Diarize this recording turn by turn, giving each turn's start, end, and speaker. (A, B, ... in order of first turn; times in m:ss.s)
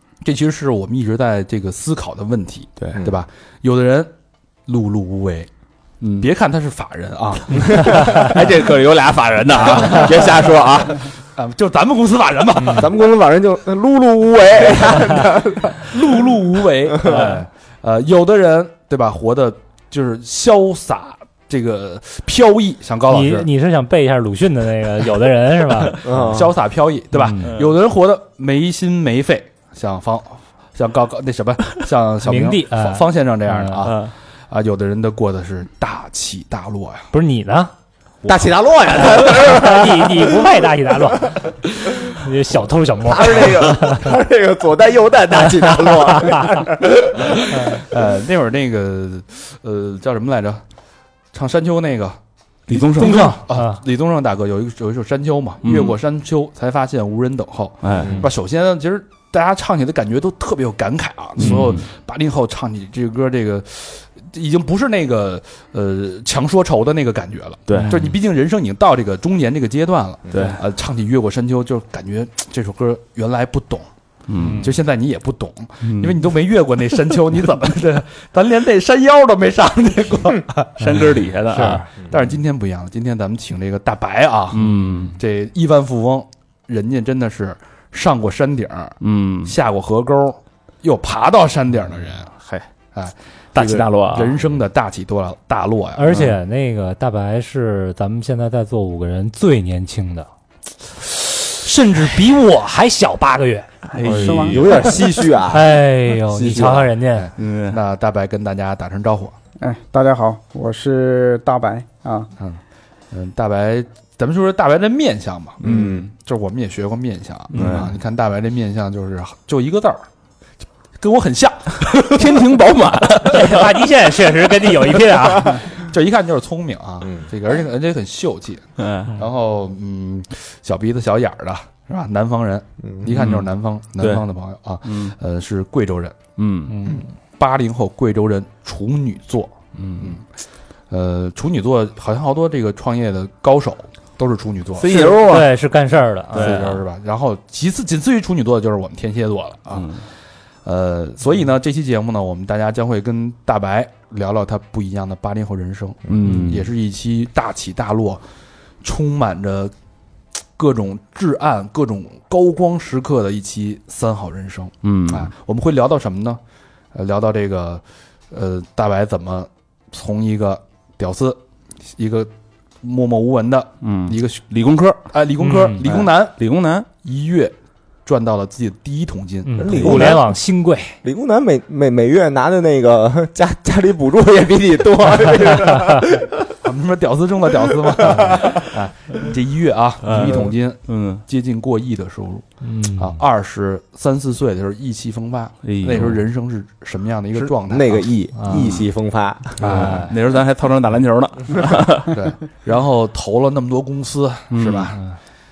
0:00.2-0:04.1 A
0:04.6-0:05.5 A
0:06.0-0:06.3 B
0:06.2-0:08.4 A
0:07.7-0:11.0 B
0:09.5-0:10.1 A
0:11.4-0:12.9 A
0:12.7-0:15.9 C
0:14.8-0:23.5 A
0:23.1-0:26.0 D
0:26.0-0:37.1 A
0:26.0-0:26.5 C
0:27.2-0:27.5 D
0:27.4-0:27.8 B
0:32.2-0:33.9 D
0:33.8-0:34.1 B
0:37.1-0:37.7 D
0:38.2-0:40.3 C
0:39.0-0:44.1 D
0:43.0-0:47.5 C
0:45.6-0:46.6 D
0:47.3-0:50.6 A
0:51.3-0:52.2 A
0:52.7-0:53.4 B
0:52.8-1:13.9 A
0:53.0-0:53.8 D
0:55.6-0:56.0 B
0:57.8-0:58.2 B
1:01.4-1:01.8 B
1:07.7-1:08.2 B
1:10.3-1:10.6 B
1:14.3-1:14.6 B
1:14.4-1:14.7 D
1:14.5-1:32.3 A
1:15.8-1:16.2 B
1:20.8-1:21.8 B
1:21.5-1:21.8 D
1:24.5-1:25.2 B
1:29.0-1:29.6 B
1:32.9-1:36.3 A
1:33.5-1:34.4 B
1:36.0-1:40.3 D
1:41.6-1:42.3 A
1:41.6-1:43.7 D
1:44.0-1:44.9 B
1:44.0-1:44.9 E
1:44.0-1:46.9 C
1:44.1-1:44.6 A
1:45.5-1:47.3 D
1:47.1-1:49.4 A
1:47.4-1:47.8 B
1:49.6-1:52.3 E
1:53.1-2:00.1 A
1:55.6-1:56.1 C
1:57.5-1:57.9 D
1:57.5-1:57.9 B
2:01.0-2:02.4 A
2:01.9-2:03.9 B
2:03.3-2:05.7 D
2:05.4-2:16.2 A
2:08.8-2:09.1 B
2:13.1-2:14.2 B
2:14.8-2:15.1 B
2:16.4-2:16.8 B
2:16.7-2:17.1 D
2:16.8-2:20.2 A
2:19.8-2:20.2 B
2:20.9-2:25.1 A
2:24.8-2:25.5 B
2:24.9-2:26.8 D
2:26.3-2:30.0 A
2:26.3-2:26.8 B
2:29.7-2:30.0 B
2:30.6-2:38.2 A
2:36.1-2:36.7 B
2:38.8-2:39.7 A
2:40.6-2:46.4 A
2:44.8-2:45.3 B
2:46.9-2:51.4 A
2:51.9-2:52.3 A
2:52.8-2:54.4 A
2:53.8-2:55.1 B
2:55.1-2:56.4 A
2:55.4-2:55.8 D
2:55.8-2:56.9 B
2:57.0-3:00.2 A
2:59.4-3:01.0 D
2:59.6-3:00.3 C
3:01.0-3:06.4 C
3:06.6-3:12.4 A
3:07.9-3:08.6 C
3:10.0-3:11.2 B
3:10.2-3:10.5 C
3:12.6-3:13.2 D
3:12.9-3:18.0 A
3:15.6-3:16.2 B
3:17.4-3:19.6 C
3:18.4-3:18.7 D
3:19.6-3:20.1 A
3:19.6-3:22.1 B
3:19.6-3:20.1 D
3:22.1-3:25.0 A
3:24.5-3:24.9 B